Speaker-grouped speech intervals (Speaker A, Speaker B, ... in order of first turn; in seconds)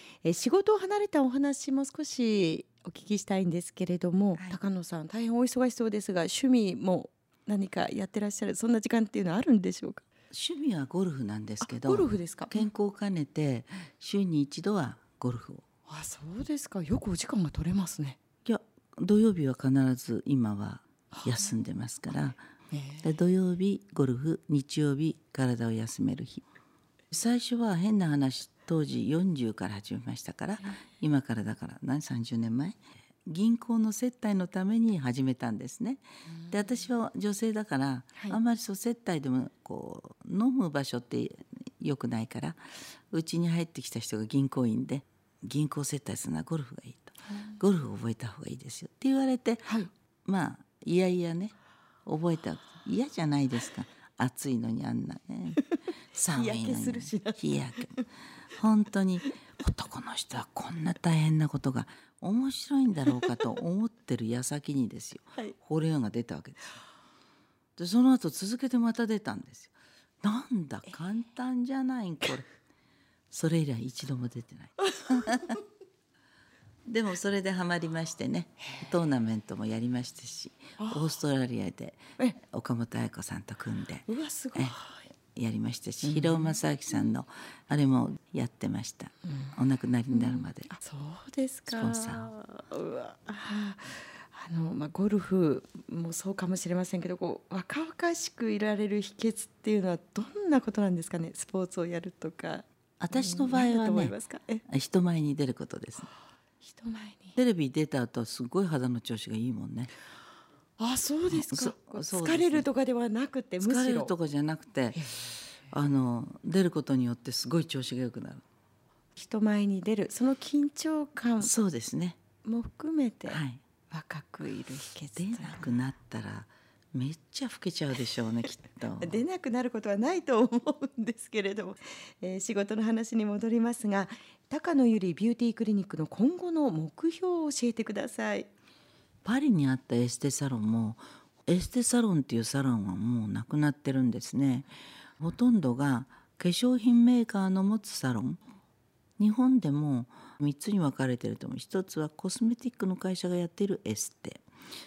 Speaker A: 0.2-10.0, 11.6-12.6, 15.9-18.2, 21.1-21.5, 22.7-23.1, 56.3-58.0, 74.8-75.6, 84.1-85.0, 86.0-86.5, 90.1-104.6, 106.6-107.3, 110.8-114.1, 114.9-115.3, 119.2-121.5, 122.4-125.7, 129.0-138.5
Speaker B: 10.3-15.6, 18.4-22.4, 23.0-26.4, 27.1-42.6, 43.1-51.5, 52.0-55.6, 56.1-58.0, 58.5-66.7, 67.8-72.5, 73.3-75.6, 76.8-84.8, 85.3-90.7, 91.7-92.3, 103.0-104.2, 104.7-106.1, 107.3-109.9, 111.3-112.7, 113.6-115.0, 115.7-118.4, 121.4-122.2, 123.3-123.6, 125.2-129.2, 139.2-144.7, 145.2-148.4, 149.2-154.4